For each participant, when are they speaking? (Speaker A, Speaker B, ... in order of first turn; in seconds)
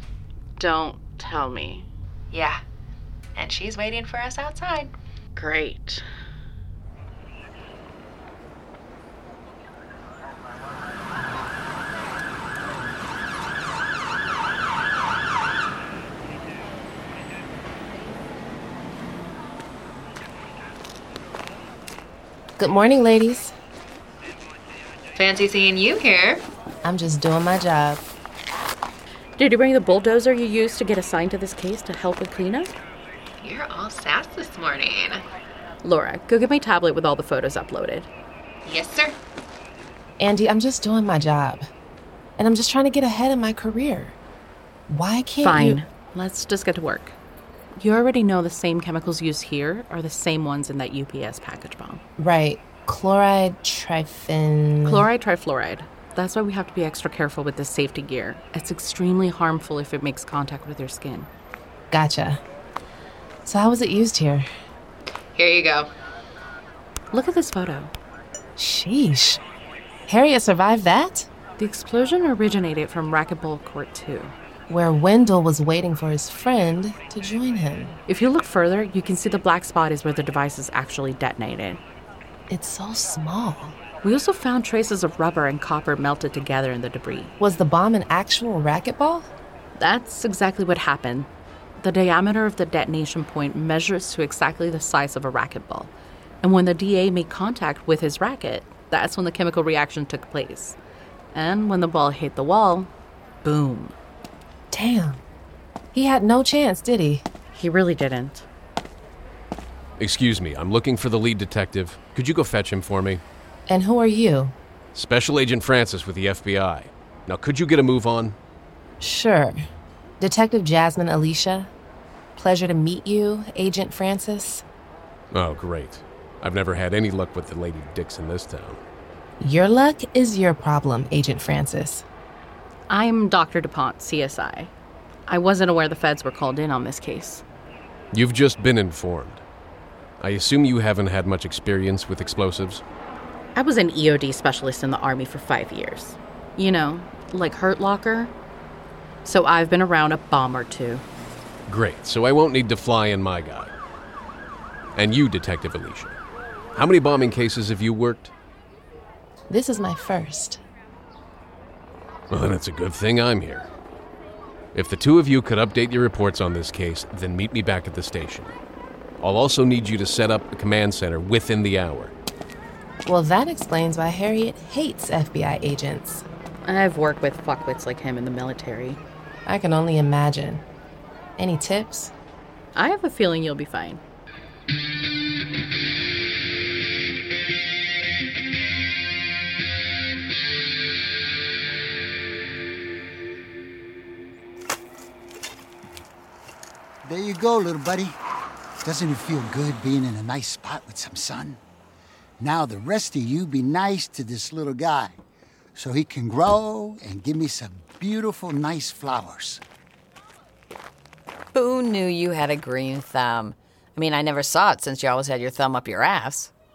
Speaker A: 0.6-1.9, 5.3-6.0, 29.4-32.7, 35.8-38.1, 45.4-47.1, 47.8-52.0, 54.8-61.3, 67.1-67.9, 71.6-74.3, 78.1-81.8, 84.0-87.3, 89.8-91.3, 91.8-100.8, 101.3-102.9, 103.4-104.0, 107.5-108.5, 132.9-134.7, 135.3-137.4, 143.6-148.3, 149.2-151.0, 176.7-179.0, 182.8-184.0
Speaker B: 2.3-2.6, 3.3-4.9, 25.1-26.4, 33.4-35.2, 38.6-39.2
Speaker C: 22.6-23.5, 26.8-28.1, 40.2-41.7, 42.4-44.1, 44.9-45.8, 52.2-55.1, 61.9-62.4, 63.5-64.5, 68.6-69.4, 70.1-71.3, 74.7-78.0, 82.5-83.8, 87.4-89.3, 104.7-105.2, 105.9-107.2, 113.7-114.5, 119.0-119.5, 120.2-121.7, 122.4-124.6, 129.4-132.0, 159.5-160.6, 173.1-176.2, 179.5-180.6, 181.4-182.1
Speaker D: 110.0-113.2, 114.9-118.4, 125.3-128.8, 138.1-139.4, 140.2-142.8, 151.7-153.7, 155.0-156.2, 156.8-158.3, 162.3-163.7, 164.7-168.5, 169.2-172.1
Speaker E: 197.0-198.2, 198.8-201.6, 202.4-205.2, 205.8-209.6
Speaker F: 211.5-216.5